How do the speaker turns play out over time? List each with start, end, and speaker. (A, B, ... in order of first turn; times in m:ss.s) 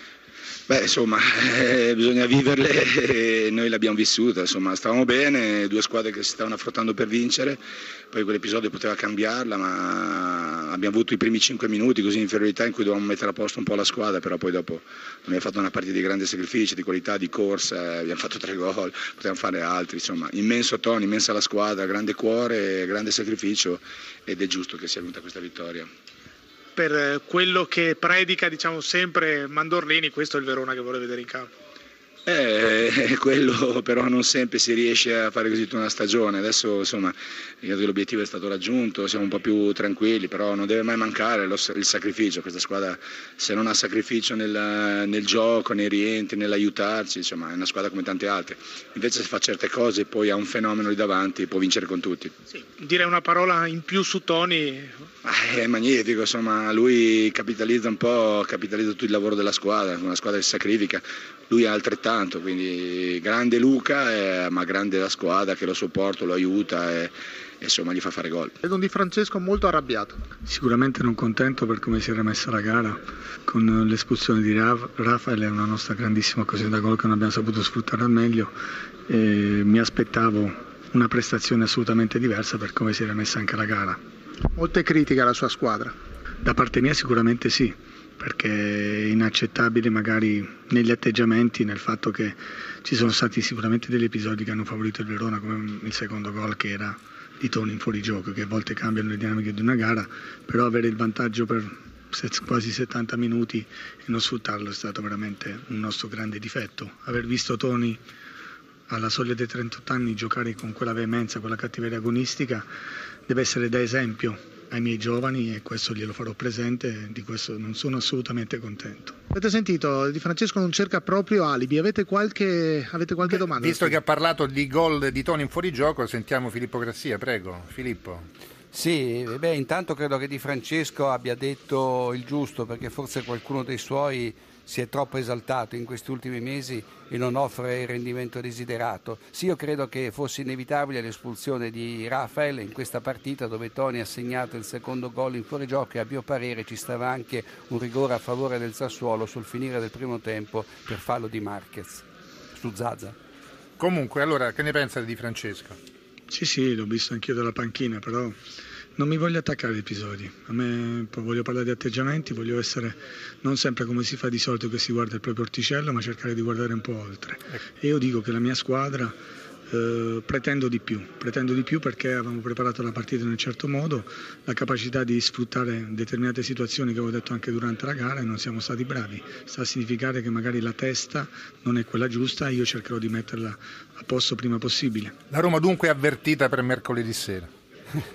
0:00.7-0:07.6 A
0:08.1-0:25.9 A
0:26.8-0:31.5 B
0:32.3-0:52.3 A
0:52.6-0:54.9 B
0:55.2-1:08.5 A
1:08.6-1:10.2 B
1:10.5-1:18.5 C
1:19.1-1:24.0 C
1:24.6-1:25.9 B
1:26.4-1:48.0 C
1:48.9-1:52.6 C
1:53.3-1:59.2 C
1:59.3-2:04.0 B
2:03.3-2:08.3 D
2:08.7-2:32.0 E
2:32.6-2:33.2 E
2:33.8-2:35.8 D
2:36.3-2:38.4 C
2:39.0-2:49.1 C
2:49.7-3:05.1 C
3:05.3-3:07.5 D